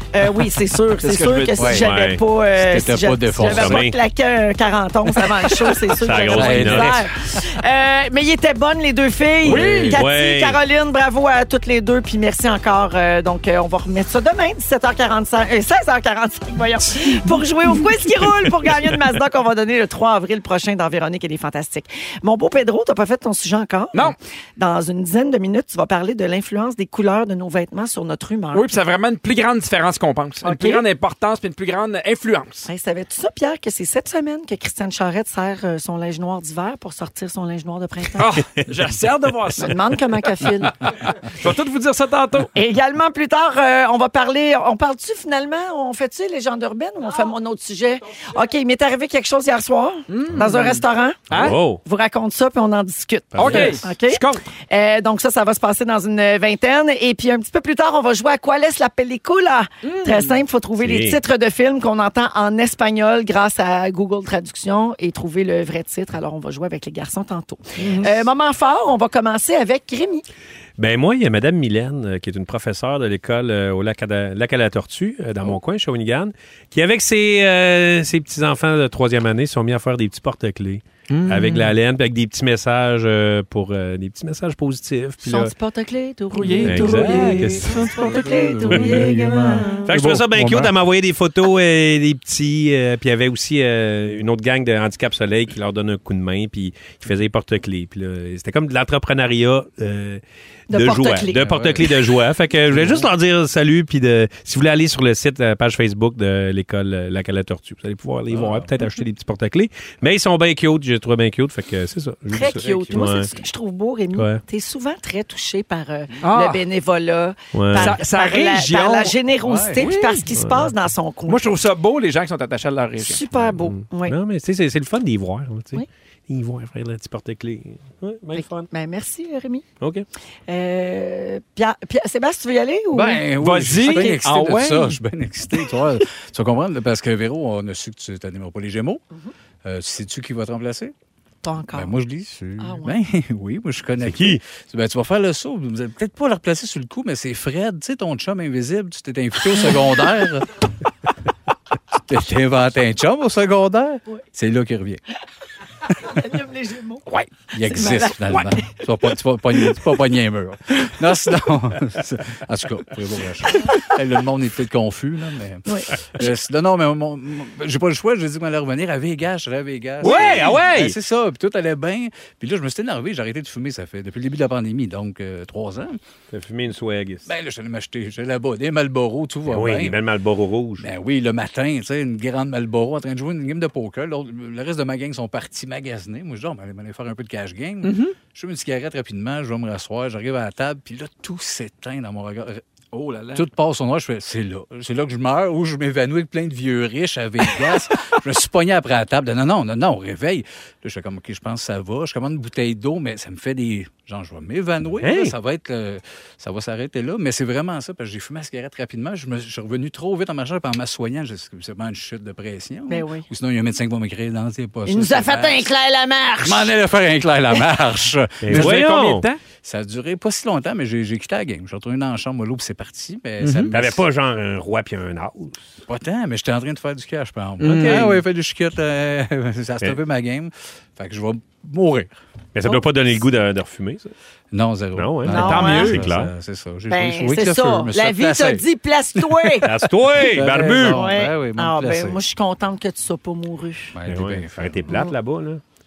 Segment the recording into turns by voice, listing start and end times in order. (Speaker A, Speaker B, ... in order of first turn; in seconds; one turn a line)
Speaker A: 0.1-28.6
Speaker B: 1.0-1.7
Speaker C: 1.6-1.9
Speaker D: 1.7-2.2
Speaker C: 2.5-3.9
Speaker D: 3.4-4.0
Speaker D: 5.9-7.0
Speaker C: 6.2-7.1
Speaker B: 9.4-10.0
Speaker D: 9.9-10.6
Speaker B: 28.5-32.7
Speaker A: 30.4-30.8
Speaker A: 32.7-38.4
Speaker B: 38.2-40.0
Speaker A: 39.6-40.8
Speaker B: 41.3-42.5
Speaker A: 42.5-51.2
Speaker B: 50.1-51.6
Speaker D: 51.3-51.8
Speaker A: 51.7-70.2
Speaker D: 53.3-53.8
Speaker B: 53.4-54.4
Speaker B: 59.8-60.4
Speaker D: 60.8-61.2
Speaker B: 67.8-68.1
Speaker D: 70.8-85.5
Speaker B: 81.1-81.7
Speaker A: 85.2-89.9
Speaker B: 86.3-87.8
Speaker D: 86.6-87.8
Speaker C: 86.7-90.8
Speaker D: 88.7-89.0
Speaker D: 89.9-113.3
Speaker A: 100.7-102.0
Speaker C: 101.4-101.9
Speaker C: 102.7-103.1
Speaker C: 108.3-108.8
Speaker A: 112.3-121.5
Speaker C: 112.4-113.3
Speaker D: 114.2-114.4
Speaker B: 116.2-116.7
Speaker D: 117.5-117.9
Speaker B: 117.7-119.2
Speaker C: 119.4-119.9
Speaker B: 119.8-120.2
Speaker D: 120.4-120.7
Speaker B: 121.3-123.2
Speaker A: 123.0-124.2
Speaker D: 123.3-128.7
Speaker A: 128.3-129.7
Speaker D: 129.8-130.1
Speaker A: 130.5-133.3
Speaker C: 132.9-139.0
Speaker B: 133.4-135.0
Speaker A: 133.8-134.2
Speaker C: 139.6-140.9
Speaker A: 141.4-142.0
Speaker C: 141.7-150.5
Speaker A: 142.6-143.0
Speaker D: 144.0-144.4
Speaker C: 151.9-155.0
Speaker A: 156.0-158.8
Speaker C: 157.5-176.0
Speaker A: 165.7-166.3
Speaker B: 170.0-170.6
Speaker D: 170.0-170.9
Speaker D: 176.3-177.3
Speaker C: 177.3-180.0
Speaker D: 179.5-180.9
Speaker C: 180.8-192.6
Speaker B: 187.8-188.2
Speaker B: 192.9-193.4
Speaker C: 193.3-215.7
Speaker D: 205.0-205.3
Speaker A: 212.9-213.3
Speaker A: 214.9-216.7
Speaker C: 216.4-218.8
Speaker D: 218.4-219.3
Speaker B: 218.5-219.4
Speaker C: 219.6-224.0
Speaker B: 223.4-223.8
Speaker D: 223.7-225.7
Speaker C: 225.9-232.2
Speaker B: 227.6-228.2
Speaker D: 232.5-234.1
Speaker C: 234.5-238.7
Speaker D: 234.9-236.3
Speaker A: 235.3-236.0
Speaker A: 236.9-239.7
Speaker C: 239.2-242.2
Speaker D: 239.7-241.0
Speaker A: 240.8-244.0
Speaker C: 243.9-245.0
Speaker D: 244.1-245.6